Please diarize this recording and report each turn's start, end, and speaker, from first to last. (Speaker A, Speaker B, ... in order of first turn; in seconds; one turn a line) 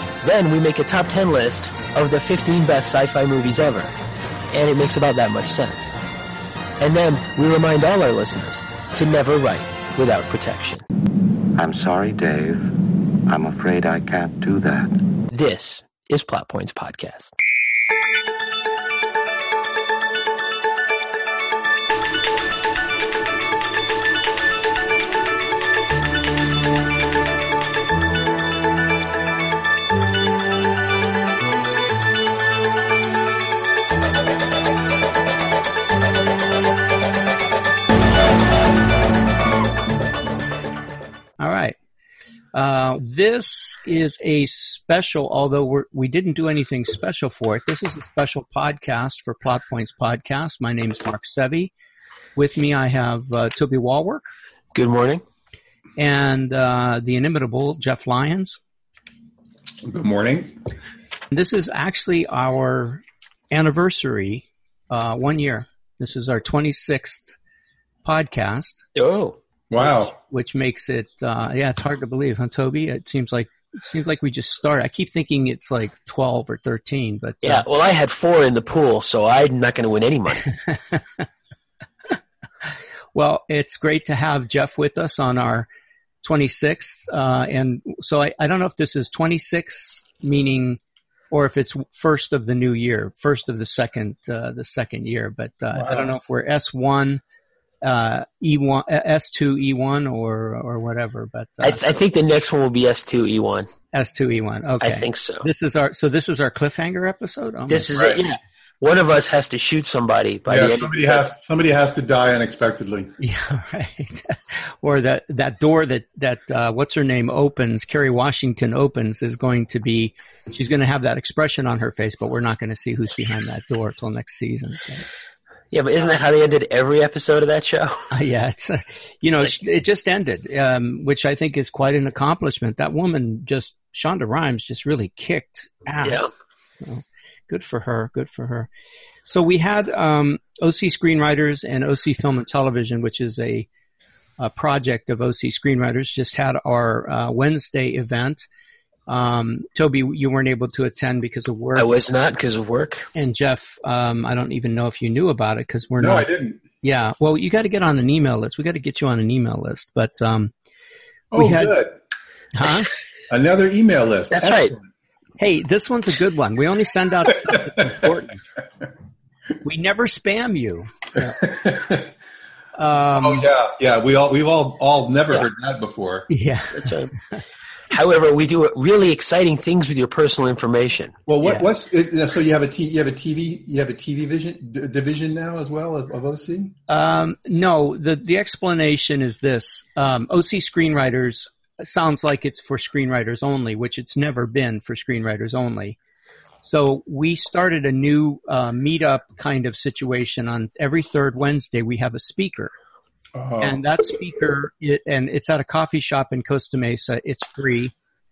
Speaker A: 0.2-3.9
Speaker A: 4.5-5.9
Speaker A: 6.8-10.8
Speaker B: 11.5-12.7
Speaker B: 13.3-15.0
Speaker A: 15.3-17.3
Speaker C: 41.4-41.8
Speaker C: 42.5-51.7
Speaker C: 52.4-54.3
Speaker A: 54.7-55.2
Speaker C: 56.0-58.6
Speaker D: 59.8-60.6
Speaker C: 61.3-67.4
Speaker C: 68.0-68.8
Speaker A: 68.9-69.4
Speaker D: 69.7-70.1
Speaker C: 69.8-77.6
Speaker A: 77.4-80.5
Speaker C: 83.1-85.7
Speaker C: 86.2-90.8
Speaker C: 91.3-97.2
Speaker D: 95.8-96.1
Speaker C: 97.8-101.8
Speaker A: 101.6-103.7
Speaker C: 103.9-107.9
Speaker A: 104.8-105.4
Speaker A: 107.7-111.2
Speaker D: 107.9-108.2
Speaker D: 110.5-113.2
Speaker C: 113.2-125.0
Speaker A: 125.7-128.1
Speaker C: 128.1-136.3
Speaker A: 136.0-136.3
Speaker C: 136.8-138.7
Speaker C: 139.2-143.7
Speaker C: 144.4-148.4
Speaker C: 149.1-151.9
Speaker A: 151.8-153.1
Speaker C: 153.1-156.3
Speaker D: 156.0-156.6
Speaker C: 156.8-160.5
Speaker D: 161.3-162.0
Speaker C: 161.3-161.8
Speaker C: 162.5-162.9
Speaker D: 163.3-164.9
Speaker A: 164.3-164.7
Speaker C: 165.4-168.4
Speaker C: 169.6-171.4
Speaker D: 171.2-172.1
Speaker C: 172.8-173.4
Speaker D: 173.2-176.3
Speaker C: 176.3-177.4
Speaker A: 176.7-177.2
Speaker A: 177.9-181.2
Speaker D: 181.2-186.7
Speaker C: 186.9-196.0
Speaker C: 196.6-202.7
Speaker D: 203.3-203.8
Speaker C: 203.6-207.9